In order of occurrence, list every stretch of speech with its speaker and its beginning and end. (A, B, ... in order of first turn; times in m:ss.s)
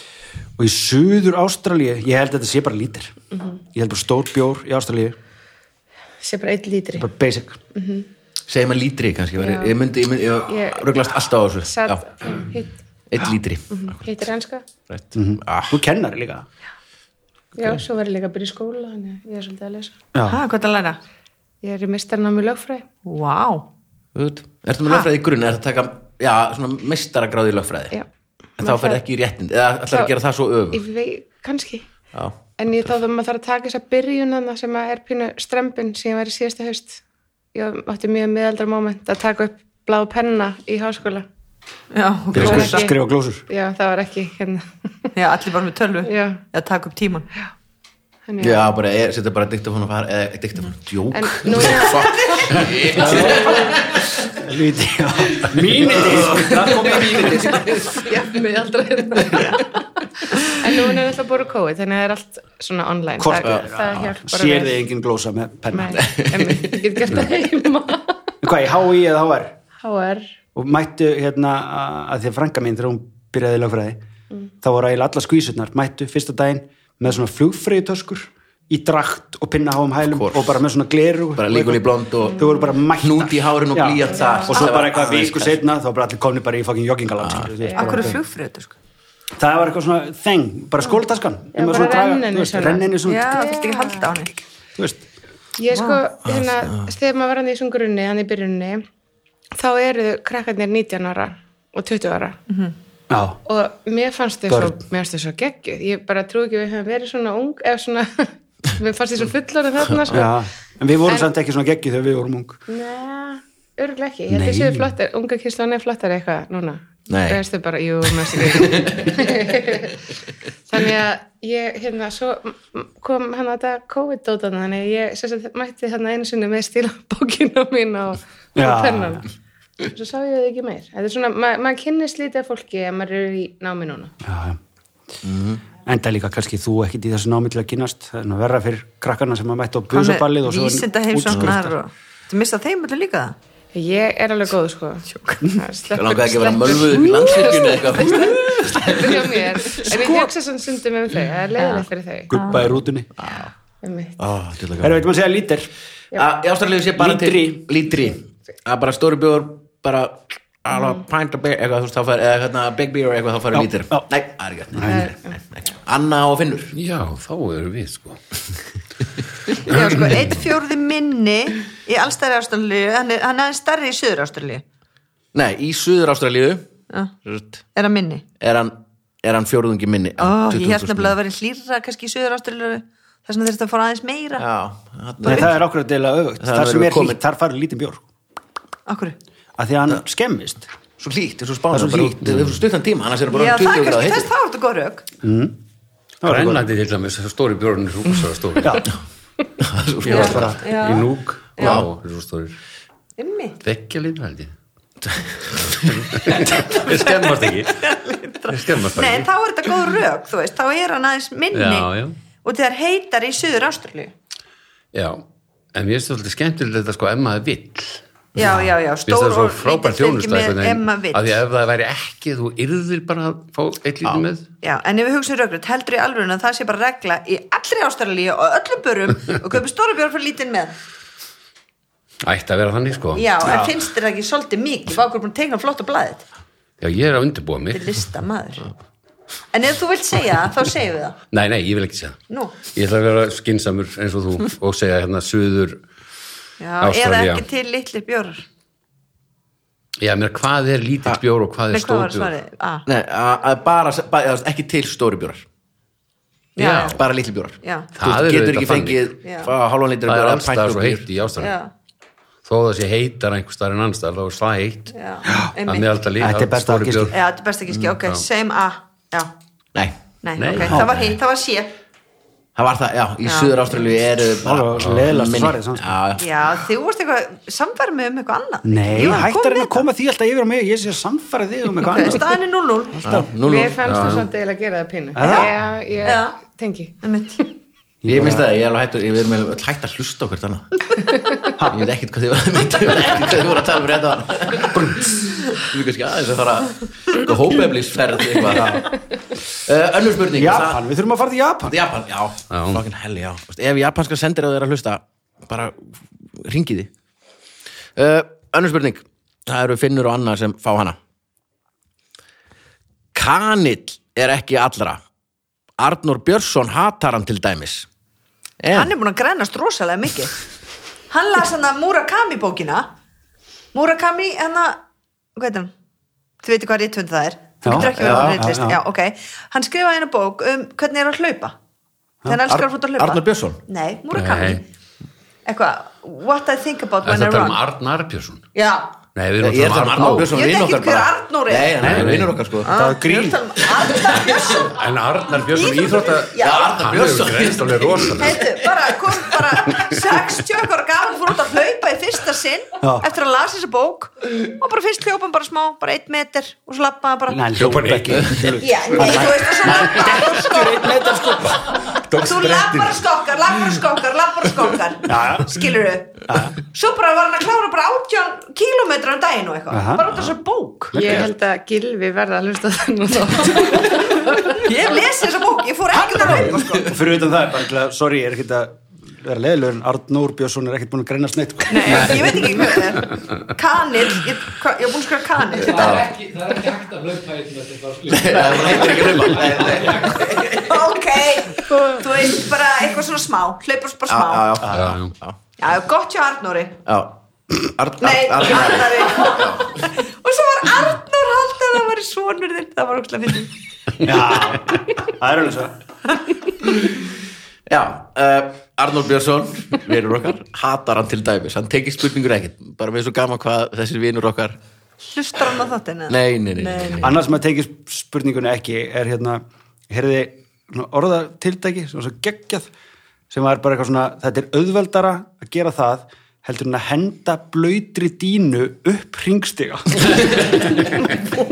0:00.6-0:03.1 A
0:03.3-0:03.6 B
0:03.7-0:05.1 A
0:06.2-0:07.1 B
0:06.9-0:07.6 A
0:07.7-0:08.1 B
0:08.5-0:12.0 C
0:09.4-0:09.8 B
0:10.5-0:10.9 B
0:11.6-0:12.8 B
0:13.1-0:14.2 C
0:13.7-0:14.6 B
0:14.9-0:15.8 C
0:15.1-0:16.4 A
0:17.6-0:19.9 B
0:20.1-0:20.4 A
0:20.3-0:21.0 D
0:21.6-0:22.8 B
0:23.0-0:23.7 D
0:24.1-0:28.0 C
0:28.6-0:29.0 B
0:28.6-0:30.8 C
0:30.7-0:31.9 B
0:32.6-0:37.0 B
0:37.5-0:41.2 B
0:41.9-0:42.9 D
0:42.3-0:43.4 A
0:42.4-0:42.9 B
0:43.5-0:44.6 B
0:45.2-0:47.3 D
0:46.0-0:46.4 B
0:48.3-0:48.7 B
0:48.4-0:54.1 C
0:51.1-0:53.8 B
0:51.6-0:53.3 D
0:52.9-0:53.7 A
0:54.3-0:57.9 A
0:55.9-0:57.3 C
0:57.9-1:04.8 B
1:03.2-1:06.1 A
1:05.7-1:08.1 B
1:06.0-1:06.8 C
1:08.4-1:09.6 A
1:09.8-1:10.2 B
1:10.5-1:14.0 A
1:14.6-1:28.2 A
1:20.0-1:20.5 C
1:21.4-1:25.6 C
1:24.1-1:24.6 B
1:27.2-1:27.5 C
1:27.6-1:28.1 B
1:27.8-1:28.7 D
1:29.4-1:33.5 A
1:31.5-1:34.1 B
1:33.0-1:34.3 D
1:34.8-1:35.0 A
1:35.6-1:38.8 B
1:35.7-1:36.0 D
1:36.2-1:36.9 C
1:39.5-1:42.4 B
1:42.5-1:42.7 D
1:43.1-1:43.4 A
1:43.4-1:50.3 B
1:44.5-1:44.8 A
1:50.1-1:52.6 A
1:52.7-2:00.0 B
1:54.3-1:54.9 A
1:57.1-1:57.4 C
1:58.2-1:59.1 C
2:00.7-2:09.2 B
2:08.6-2:09.2 A
2:09.9-2:14.1 B
2:14.2-2:14.6 A
2:15.2-2:15.6 C
2:15.8-2:21.8 A
2:19.9-2:23.3 D
2:23.7-2:32.4 B
2:25.1-2:25.4 D
2:25.9-2:29.9 C
2:29.8-2:30.3 D
2:31.6-2:32.7 D
2:32.3-2:33.1 A
2:33.2-2:33.5 C
2:33.8-2:34.2 B
2:34.2-2:35.1 C
2:34.8-2:35.7 A
2:36.1-2:46.7 C
2:37.0-2:37.7 A
2:43.5-2:44.1 A
2:44.7-2:45.1 A
2:46.7-2:48.2 E
2:49.6-2:54.6 D
2:49.7-2:50.2 E
2:55.3-2:56.7 C
2:56.9-2:57.1 D
2:57.2-2:57.6 C
2:57.7-2:58.2 D
2:58.4-3:01.1 C
3:00.2-3:04.4 D
3:04.4-3:05.6 C
3:05.2-3:08.0 A
3:06.4-3:07.2 C
3:08.9-3:09.2 D
3:09.6-3:10.7 A
3:11.0-3:14.3 C
3:11.7-3:12.5 A
3:13.3-3:15.1 D
3:15.2-3:15.6 A
3:16.2-3:16.6 A
3:16.2-3:18.8 E
3:19.6-3:20.7 C
3:20.0-3:21.0 D
3:20.1-3:22.6 E
3:20.1-3:21.0 A
3:21.6-3:21.8 D
3:21.6-3:21.9 C
3:23.2-3:23.6 D
3:23.6-3:24.5 E
3:25.1-3:25.7 C
3:25.6-3:27.9 E
3:26.5-3:31.9 D
3:28.5-3:29.3 E
3:31.5-3:32.2 E
3:32.4-3:34.1 D
3:34.9-3:35.2 E
3:35.7-3:38.0 E
3:38.4-3:41.4 D
3:38.4-3:38.7 A
3:39.0-3:44.4 E
3:44.6-3:50.8 D
3:52.2-3:53.3 E
3:53.1-3:56.2 D
3:53.4-3:53.7 A
3:56.8-3:57.9 E
3:57.7-3:58.6 D
3:59.5-4:01.2 D
4:01.3-4:05.8 E
4:02.3-4:02.6 D
4:06.6-4:08.4 D
4:06.8-4:07.4 E
4:10.0-4:12.3 E
4:11.7-4:12.8 D
4:12.9-4:15.4 C
4:16.6-4:17.0 D
4:16.6-4:17.0 E
4:16.9-4:21.1 C
4:17.6-4:17.9 D
4:18.0-4:19.1 E
4:19.2-4:19.5 D
4:20.0-4:21.6 E
4:21.4-4:21.7 D
4:22.4-4:24.9 E
4:24.9-4:25.9 D
4:25.2-4:25.5 A
4:25.6-4:27.2 E
4:26.2-4:27.1 A
4:27.1-4:29.3 D
4:27.8-4:28.2 E
4:30.2-4:31.7 D
4:30.4-4:31.2 E
4:32.6-4:36.6 C
4:33.2-4:33.7 D
4:34.4-4:36.0 A
4:34.8-4:35.1 E
4:36.2-4:39.8 D
4:38.6-4:42.4 A
4:41.8-4:43.1 D
4:43.0-4:43.3 A
4:43.0-4:44.1 C
4:43.4-4:47.0 B
4:43.8-4:44.3 E
4:45.1-4:45.5 A
4:45.2-4:45.5 D
4:46.0-4:46.4 D
4:47.0-4:47.4 D
4:48.0-4:48.4 A
4:48.1-4:50.9 C
4:51.6-4:51.9 A
4:51.7-4:59.0 C
4:58.5-4:58.9 A
4:59.6-5:00.8 C
5:00.3-5:01.8 A
5:01.7-5:06.9 C
5:02.5-5:02.8 E
5:08.0-5:11.0 C
5:13.1-5:15.0 C
5:15.8-5:17.9 C
5:18.6-5:18.9 C
5:18.7-5:20.4 D
5:21.1-5:22.9 D
5:23.7-5:24.8 D
5:25.4-5:25.7 D
5:26.4-5:31.5 D
5:27.6-5:28.8 A
5:27.7-5:28.4 C
5:32.2-5:34.6 D
5:32.5-5:33.6 C
5:34.1-5:34.6 E
5:35.4-5:37.6 D
5:37.0-5:38.4 E
5:38.5-5:38.9 D
5:39.1-5:40.3 E
5:39.4-5:42.7 C
5:40.2-5:41.9 D
5:41.8-5:43.4 A
5:41.8-5:42.4 E
5:42.6-5:44.8 D
5:44.0-5:44.3 C
5:44.5-5:48.4 E
5:45.3-5:46.7 D
5:46.4-5:49.3 C
5:48.2-5:57.5 D
5:49.7-5:50.0 E
5:52.8-5:53.1 A
5:57.3-6:01.7 A
5:57.6-5:58.6 E
5:58.6-6:01.3 D
6:01.4-6:03.0 E
6:02.2-6:11.0 D
6:05.1-6:05.5 A
6:06.3-6:06.5 A
6:09.7-6:10.1 A
6:10.9-6:14.7 B
6:14.5-6:16.8 D
6:15.9-6:22.7 A
6:21.7-6:26.0 D
6:25.6-6:30.8 F
6:25.6-6:26.1 C
6:28.1-6:30.7 C
6:30.4-6:34.5 D
6:34.1-6:35.4 C
6:34.7-6:35.1 E
6:35.6-6:36.8 D
6:36.8-6:39.9 C
6:38.0-6:43.5 D
6:44.0-6:45.7 A
6:47.7-6:54.6 C
6:55.0-6:57.2 D
6:56.1-6:57.2 C
6:57.0-7:02.7 A
7:03.3-7:10.7 A